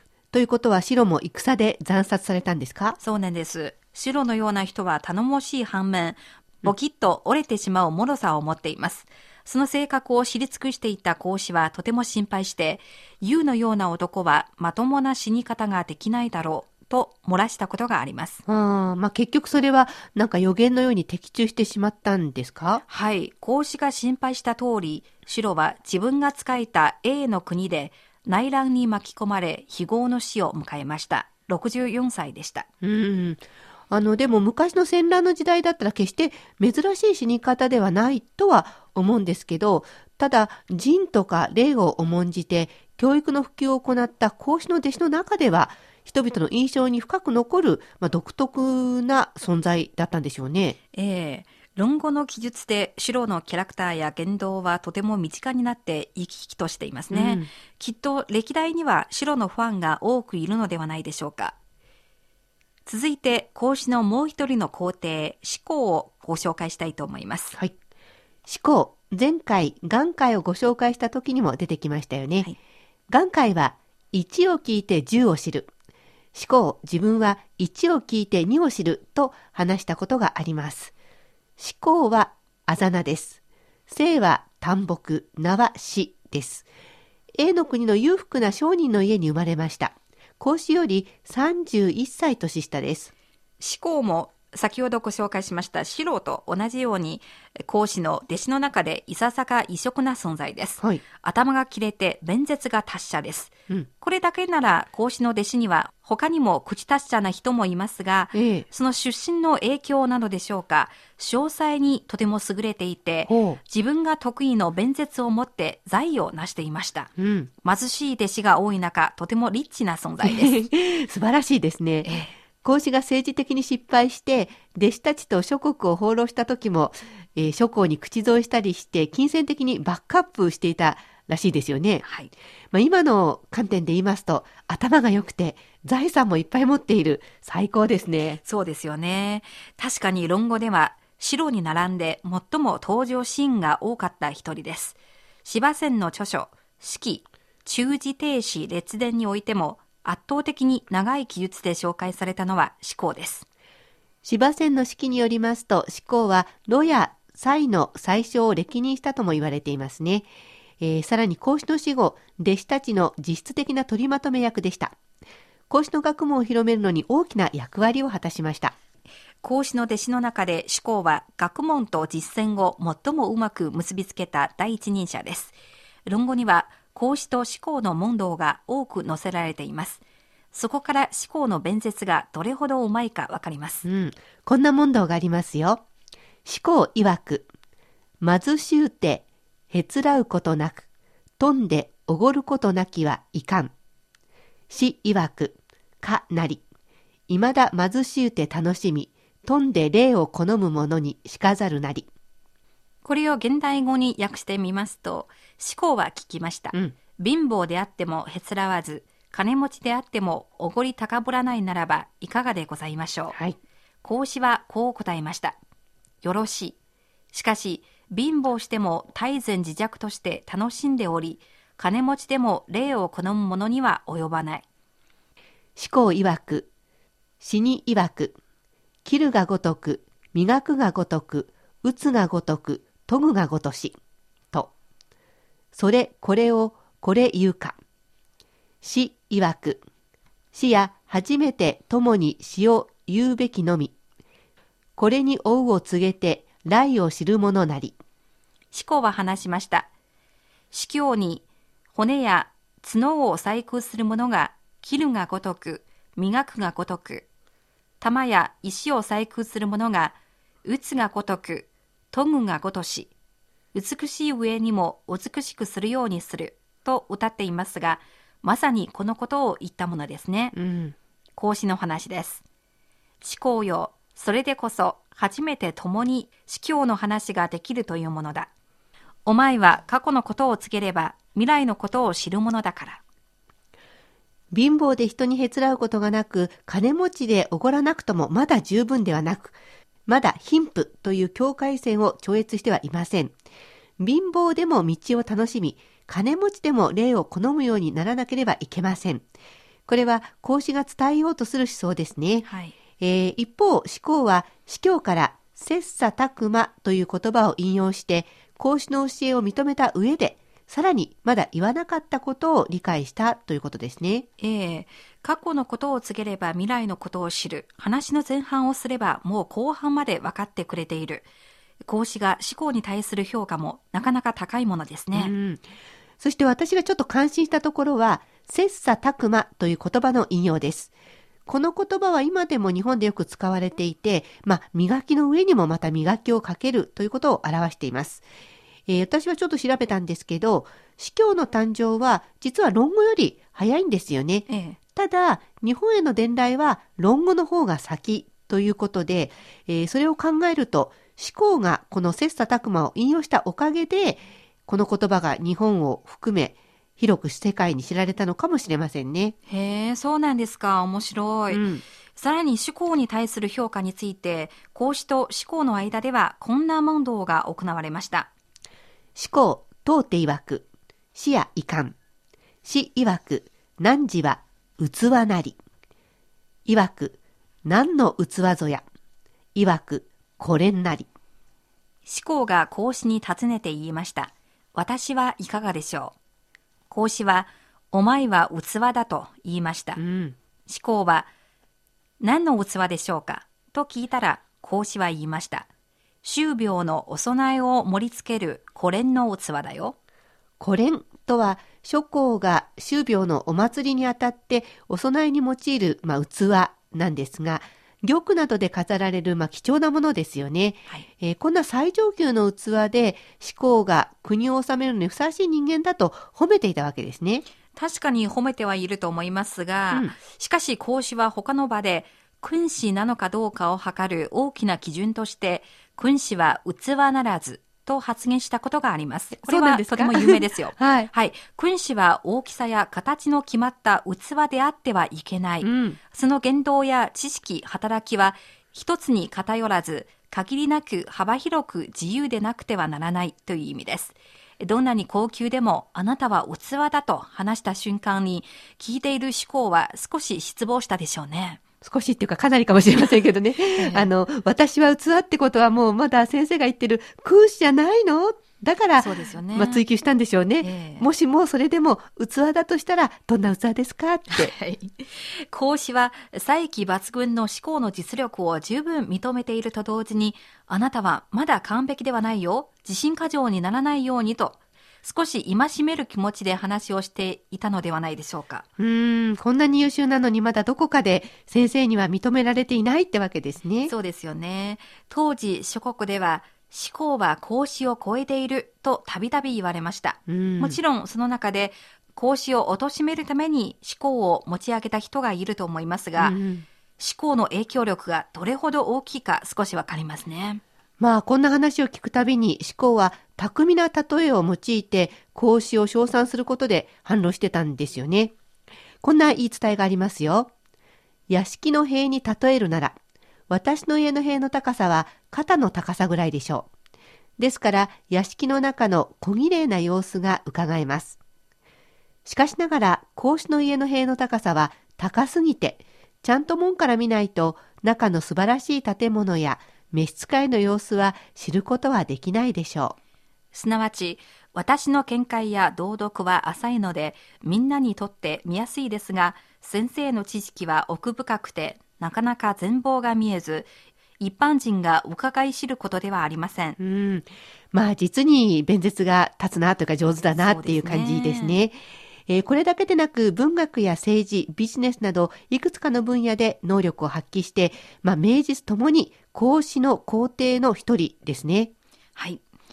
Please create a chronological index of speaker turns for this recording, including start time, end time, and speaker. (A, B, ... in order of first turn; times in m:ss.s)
0:00.3-0:03.0 A
0:03.0-0:18.4 B
0:18.5-0:22.8 A
0:22.9-0:32.7 B
0:32.8-0:50.8 A
0:50.9-1:01.5 B
0:57.1-0:57.5 A
1:02.8-1:07.6 B
1:08.4-1:12.5 A
1:13.1-1:15.7 A
1:16.3-1:20.9 A
1:21.6-1:26.6 A
1:27.4-1:33.1 A
1:33.6-1:57.1 B
1:48.3-1:48.6 A
1:53.3-1:53.6 A
1:57.2-1:57.5 A
1:57.6-2:00.6 B
2:00.2-2:12.0 A
2:02.0-2:02.3 B
2:12.0-2:12.3 B
2:12.7-2:18.4 A
2:18.4-2:33.4 B
2:34.2-2:40.3 A
2:40.8-2:44.9 A
2:45.7-2:48.7 A
2:49.4-2:55.5 B
2:56.1-3:00.0 B
3:00.5-3:03.8 B
3:03.8-3:05.8 A
3:06.4-3:07.5 A
3:08.2-3:10.8 A
3:11.4-3:13.7 A
3:14.7-3:16.6 A
3:17.3-3:22.1 A
3:23.0-3:33.4 B
3:34.0-3:35.6 B
3:36.2-3:36.8 B
3:37.3-3:44.6 B
3:45.8-3:46.7 A
3:47.4-3:48.4 A
3:49.0-3:54.0 A
3:55.7-3:57.8 A
3:58.8-3:59.8 A
4:00.5-4:03.9 A
4:05.0-4:08.0 A
4:08.7-4:09.9 B
4:10.7-4:17.2 B
4:18.0-4:23.1 B
4:23.7-4:30.6 B
4:30.5-4:30.9 A
4:31.4-4:32.4 B
4:33.2-4:38.5 B
4:39.2-4:43.0 B
4:44.5-4:49.5 A
4:50.1-4:53.3 A
4:54.0-4:59.2 A
4:59.9-5:02.5 A
5:02.4-5:02.7 B
5:03.0-5:14.3 A
5:14.4-5:21.2 B
5:21.9-5:25.3 B
5:25.1-5:25.6 A
5:26.2-5:30.9 A
5:31.5-5:38.2 A
5:38.9-5:59.3 A
5:44.5-5:44.8 B
5:59.5-6:08.3 B
6:01.5-6:01.8 A
6:09.2-6:11.9 A
6:12.6-6:15.6 A
6:16.6-6:18.8 A
6:19.5-6:21.1 A
6:22.0-6:26.1 B
6:26.9-6:30.0 B
6:30.0-6:30.4 A
6:30.7-6:31.3 B
6:32.2-6:35.7 B
6:36.2-6:39.9 B
6:40.6-6:57.4 A
6:57.7-7:31.6 B
7:09.4-7:11.1 A
7:15.6-7:16.0 A
7:31.8-7:44.5 A
7:33.7-7:34.1 B
7:39.0-7:39.8 B
7:40.6-7:41.1 B
7:44.3-7:58.6 B
7:58.8-8:03.9 A
8:03.8-8:16.4 B
8:10.3-8:10.8 A
8:16.2-8:16.6 A
8:17.0-8:20.6 B
8:21.0-8:28.3 A
8:29.0-8:30.5 A
8:31.3-8:33.0 A
8:33.5-8:36.7 A
8:37.4-8:41.2 A
8:42.2-8:53.0 A
8:53.5-9:06.8 B
9:06.8-9:21.7 A
9:10.4-9:11.6 B
9:22.2-9:22.4 B